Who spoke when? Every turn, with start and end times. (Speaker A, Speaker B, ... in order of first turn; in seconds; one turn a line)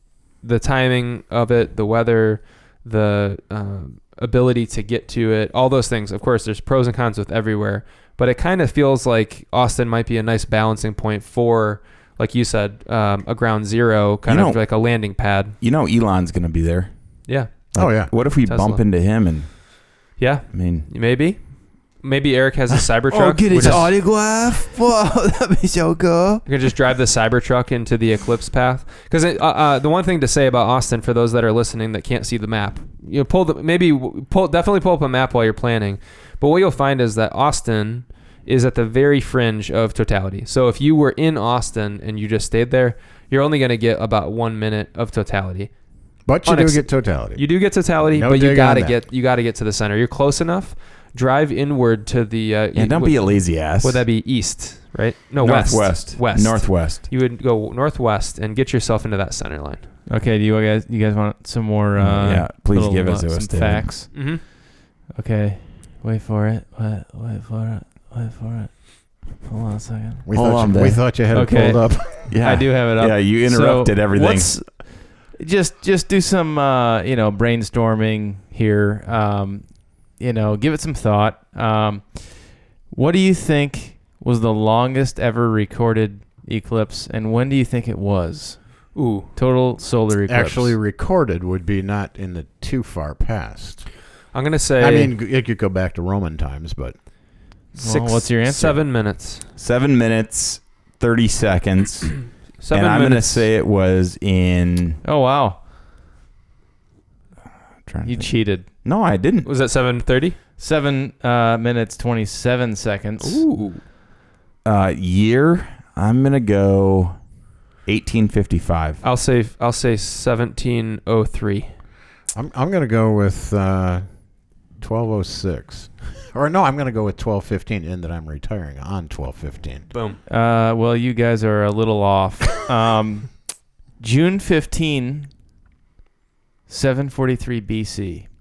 Speaker A: 0.4-15.6
Speaker B: 14.2-14.6
Speaker B: 15.6-16.9
Speaker A: 17.3-17.5
Speaker B: 17.7-19.5
Speaker C: 17.7-18.1
Speaker A: 18.1-18.8
Speaker A: 20.2-21.4
Speaker B: 20.5-20.9
Speaker A: 22.0-23.9
Speaker D: 23.1-26.4
Speaker B: 23.6-23.8
Speaker A: 26.4-45.7
Speaker C: 46.3-49.0
Speaker A: 46.4-59.9
Speaker B: 52.7-54.0
Speaker B: 55.4-57.1
Speaker D: 60.1-64.5
Speaker B: 62.0-63.9
Speaker A: 64.1-64.4
Speaker D: 65.1-70.3
Speaker C: 70.2-72.3
Speaker B: 70.3-71.2
Speaker D: 71.3-90.8
Speaker B: 72.3-74.5
Speaker A: 88.9-89.3
Speaker C: 90.3-93.9
Speaker A: 94.3-95.1
Speaker C: 94.8-96.9
Speaker D: 97.7-98.8
Speaker A: 97.8-99.4
Speaker B: 99.6-105.0
Speaker A: 102.6-103.5
Speaker D: 105.0-105.6
Speaker B: 107.8-109.5
Speaker D: 108.0-108.7
Speaker A: 109.4-110.4
Speaker D: 110.6-113.5
Speaker A: 113.2-113.8
Speaker B: 114.6-117.2
Speaker B: 117.8-119.0
Speaker A: 119.0-121.7
Speaker C: 122.3-124.0
Speaker C: 124.8-129.9
Speaker A: 129.9-130.2
Speaker D: 130.3-135.3
Speaker D: 136.7-138.3